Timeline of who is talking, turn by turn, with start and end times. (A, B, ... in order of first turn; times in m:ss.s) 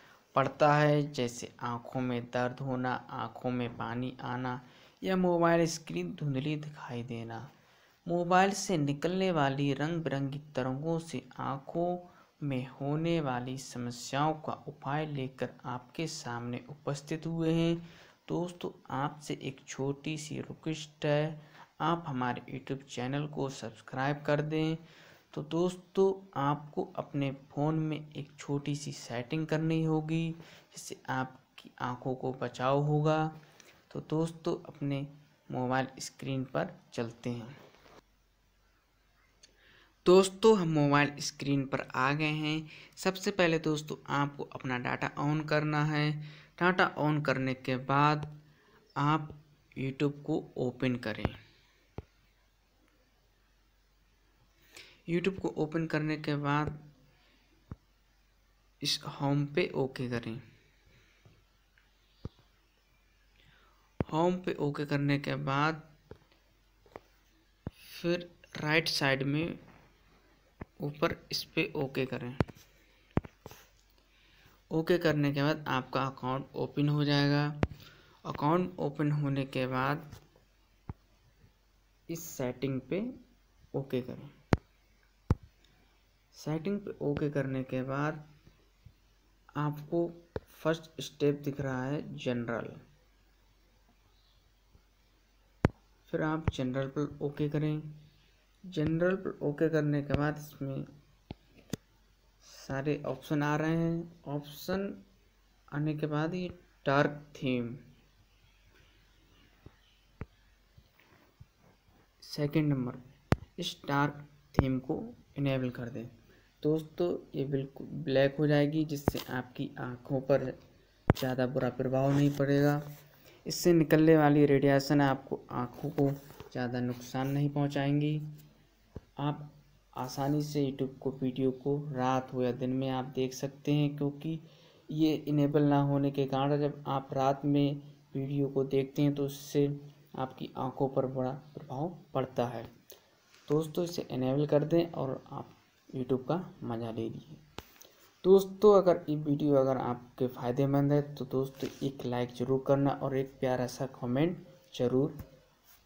0:00.3-0:07.5 A
0:08.0-0:33.3 A
0:33.9-0:37.6 A
0:40.0-0:48.3 A
0:49.0-0:51.4 A
0:55.1-0:56.8 A
0:58.8-1:00.4 A
1:04.1-1:05.9 A
1:07.8-1:09.6 A
1:10.8-1:12.4 A
1:14.7-1:17.6 A
1:18.2-1:20.1 A
1:22.1-1:23.1 A
1:23.7-1:24.3 A
1:26.3-1:28.2 A
1:29.6-1:32.8 A
1:36.0-1:37.9 A
1:38.7-1:40.9 A
1:42.4-1:45.0 A
1:45.7-1:47.8 A
1:52.2-1:53.0 A
1:53.6-2:00.6 A
2:01.1-2:02.8 A
2:03.4-2:08.3 A
2:09.2-2:22.7 A
2:23.5-2:27.4 A
2:28.2-2:35.2 A